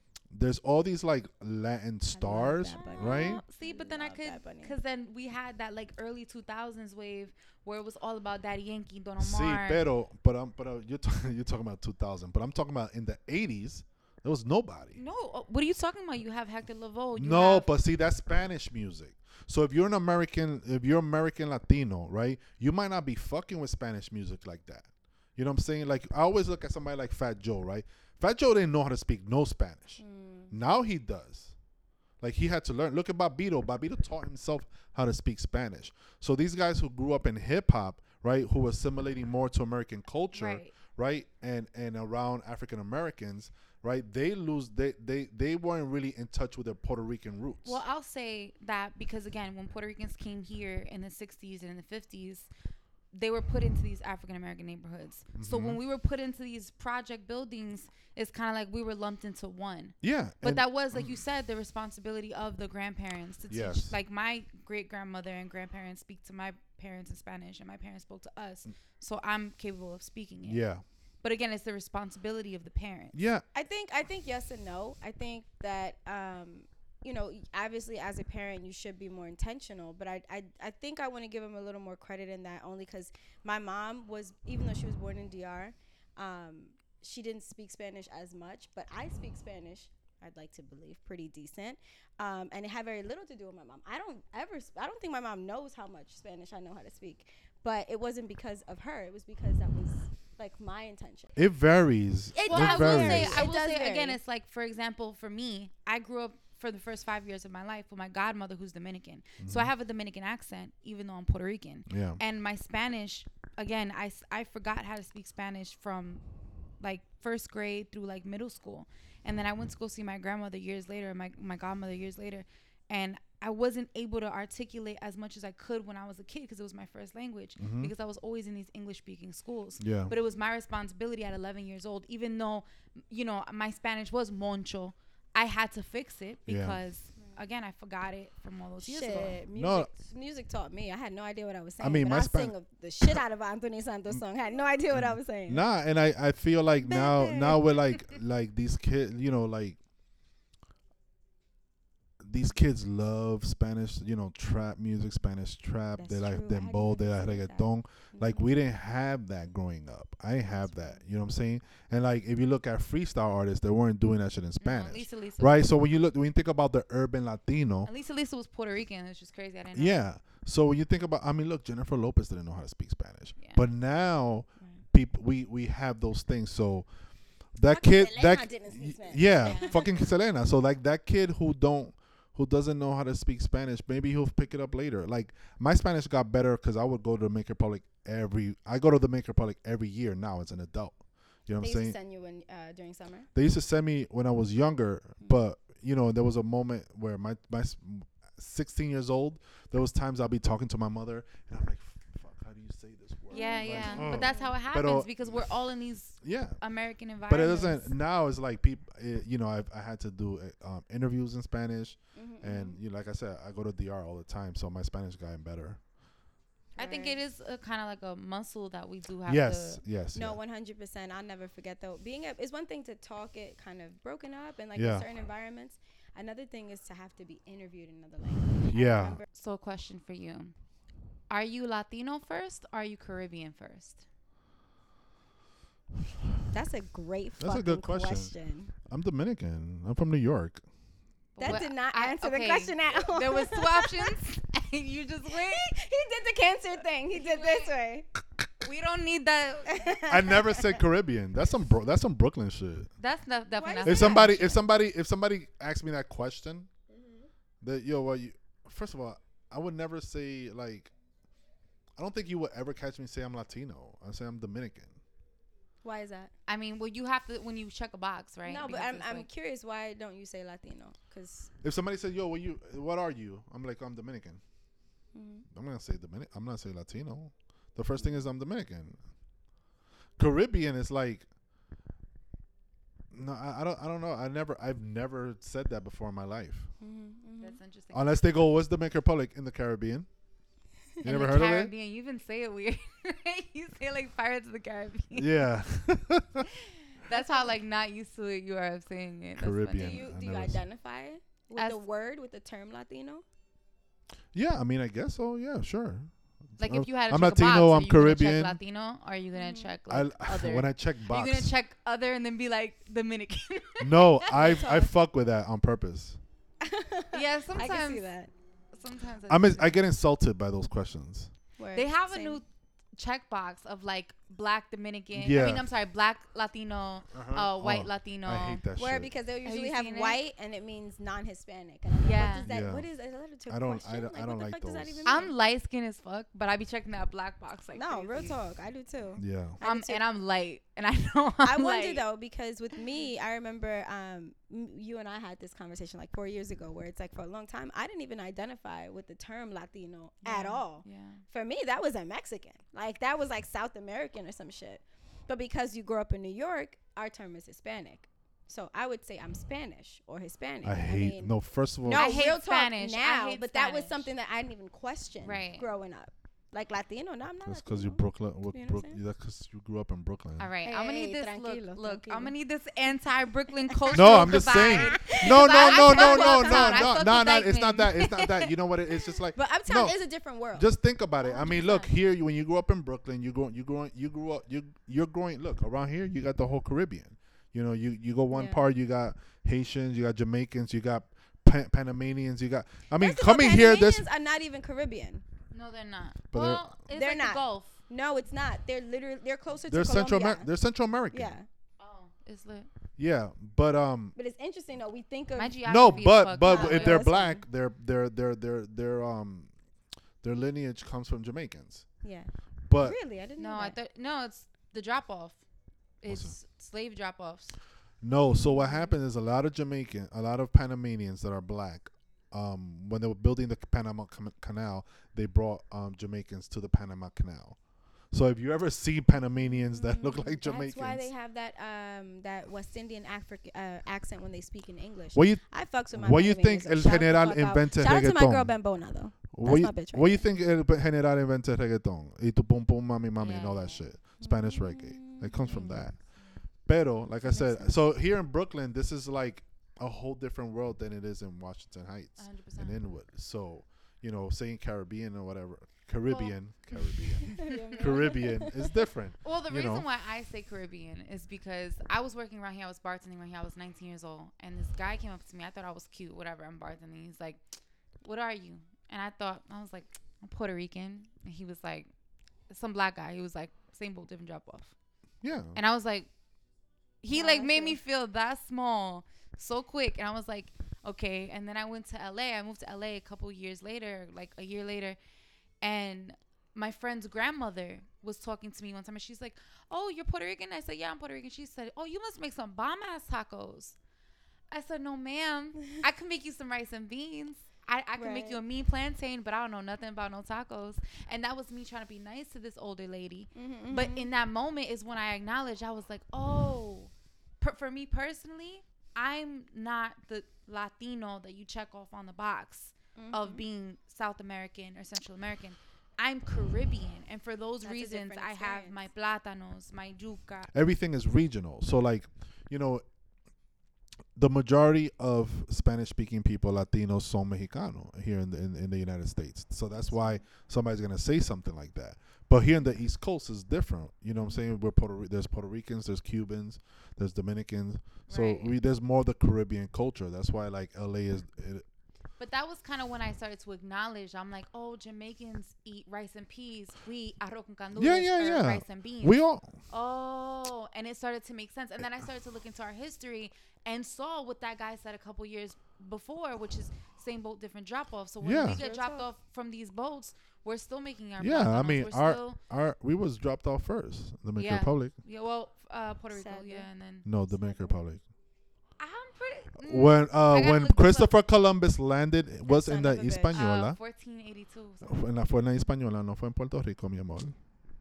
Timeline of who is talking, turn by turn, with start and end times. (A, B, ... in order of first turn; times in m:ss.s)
0:00.3-0:03.4 A
0:02.2-0:04.8 B
0:02.8-0:09.8 C
0:09.2-0:15.0 A
0:15.0-0:17.7 C
0:17.2-0:31.5 A
0:30.0-0:30.5 B
0:32.2-0:47.8 A
0:40.3-0:40.7 C
0:47.6-0:52.5 C
0:53.1-1:10.7 C
0:55.4-0:55.8 A
1:00.0-1:01.2 A
1:03.5-1:04.0 A
1:10.4-1:10.8 A
1:11.2-1:13.2 C
1:13.1-1:13.4 A
1:13.5-1:41.4 B
1:41.4-1:43.5 A
1:42.3-1:44.2 B
1:42.5-1:56.2 C
1:49.4-1:49.7 A
1:51.9-1:52.2 A
1:56.8-2:19.4 C
2:07.6-2:07.9 A
2:09.8-2:10.1 A
2:16.5-2:16.8 A
2:18.8-2:25.6 B
2:19.6-2:19.9 A
2:21.8-2:22.5 A
2:24.9-2:29.8 A
2:26.8-2:27.6 B
2:32.2-2:47.9 A
2:36.0-2:38.5 B
2:40.6-2:41.0 B
2:44.6-2:45.7 C
2:47.9-2:50.0 C
2:49.7-2:56.9 A
2:53.4-2:53.6 C
2:57.6-3:12.0 A
2:57.7-2:59.8 B
2:59.5-2:59.9 C
3:11.6-3:13.3 B
3:13.3-3:25.5 A
3:23.3-3:24.6 B
3:23.3-3:27.9 C
3:26.2-3:26.6 A
3:27.3-3:35.8 A
3:32.2-3:32.8 B
3:36.8-3:37.2 B
3:36.8-3:39.8 C
3:39.3-3:40.4 A
3:40.2-3:49.2 B
3:44.8-3:45.1 A
3:48.6-3:49.2 A
3:49.3-3:50.6 C
3:51.3-3:54.0 C
3:56.5-3:58.7 B
3:57.4-4:00.6 A
4:01.4-4:05.8 C
4:01.4-4:04.1 B
4:05.3-4:08.1 B
4:07.1-4:07.7 C
4:08.6-4:10.0 C
4:09.7-4:10.8 B
4:10.1-4:12.9 A
4:13.0-4:14.6 C
4:13.6-4:14.3 B
4:13.8-4:16.7 A
4:17.6-4:20.9 A
4:22.0-4:25.0 A
4:25.8-4:26.3 B
4:26.5-4:29.3 C
4:28.5-4:31.5 B
4:31.6-4:34.4 A
4:35.1-4:35.4 B
4:35.5-4:39.0 A
4:40.2-4:41.3 A
4:43.1-4:46.7 A
4:46.8-4:47.6 B
4:47.4-4:48.2 C
4:47.9-4:50.1 A
4:51.0-4:51.7 A
4:51.0-4:55.4 C
4:55.2-4:56.5 A
4:56.9-5:00.0 C
4:57.1-4:57.5 B
4:59.4-5:00.6 A
4:59.8-5:03.2 B
5:04.3-5:08.6 A
5:06.6-5:14.7 C
5:09.3-5:09.7 B
5:09.9-5:11.5 A
5:13.8-5:16.2 A
5:14.3-5:14.9 B
5:16.6-5:18.3 B
5:17.1-5:18.1 C
5:18.7-5:19.8 C
5:19.3-5:21.3 A
5:21.6-5:22.4 B
5:21.7-5:28.6 C
5:25.1-5:25.7 A
5:27.1-5:29.1 A
5:28.8-5:35.3 B
5:29.4-5:30.2 C
5:32.0-5:32.5 C
5:32.5-5:32.9 A
5:33.5-5:35.0 A
5:35.0-5:38.4 C
5:37.7-5:40.0 B
5:39.2-5:39.6 A
5:39.6-5:42.0 C
5:41.4-6:09.0 B
5:50.2-5:51.2 C
6:00.6-6:02.3 A
6:01.9-6:04.1 C
6:05.2-6:05.7 C
6:07.5-6:10.5 A
6:10.4-6:18.1 C
6:10.6-6:12.4 B
6:13.9-6:16.9 B
6:13.9-6:20.0 A
6:18.0-6:20.7 B
6:20.5-6:34.0 A
6:21.2-6:21.8 B
6:21.4-6:21.9 C
6:28.3-6:28.6 B
6:33.0-6:35.2 B
6:35.5-6:37.7 C
6:36.3-6:36.7 A
6:36.9-6:40.5 B
6:39.7-6:41.3 A
6:41.1-6:41.5 B
6:41.8-6:42.7 C
6:43.0-6:44.2 A
6:44.2-6:45.6 B
6:45.4-6:47.1 C
6:45.6-6:49.5 A
6:46.4-6:47.4 B
6:50.2-6:51.9 A
6:52.0-6:53.8 B
6:52.7-6:53.0 A
6:53.4-6:55.4 C
6:56.0-6:57.6 C
6:56.1-6:56.4 A
6:58.0-7:07.6 A
6:58.3-6:58.9 B
7:08.1-7:11.1 A
7:09.4-7:20.3 B
7:15.1-7:18.6 A
7:19.3-7:26.0 A
7:23.2-7:23.8 C
7:24.2-7:25.7 B
7:25.4-7:26.0 C
7:26.7-7:39.8 A
7:27.2-7:27.8 B
7:32.2-7:32.8 C
7:36.1-7:38.8 B
7:37.3-7:38.0 C
7:39.2-7:47.4 C
7:48.0-7:51.9 C
7:52.5-7:54.7 C
7:55.2-7:55.6 A
7:55.6-7:56.1 C
7:57.0-8:05.0 C
7:57.1-7:57.8 B
8:05.6-8:13.8 C
8:14.5-8:40.5 C
8:18.0-8:18.4 B
8:23.4-8:24.1 B
8:33.0-8:33.4 B
8:37.6-8:38.8 B
8:40.5-8:42.8 A
8:44.2-9:01.6 A
8:49.8-8:50.2 B
8:58.1-8:58.6 C
9:02.2-9:09.2 C
9:07.8-9:09.5 A
9:09.7-9:22.4 C
9:18.2-9:18.6 A
9:18.5-9:19.1 B
9:21.2-9:24.9 A
9:24.4-9:27.1 C
9:26.1-9:26.7 B
9:27.0-9:28.0 A
9:27.4-9:27.7 B
9:28.8-9:31.1 C
9:29.6-9:33.8 A
9:32.5-9:33.4 B
9:33.3-9:35.0 C
9:34.8-9:37.4 A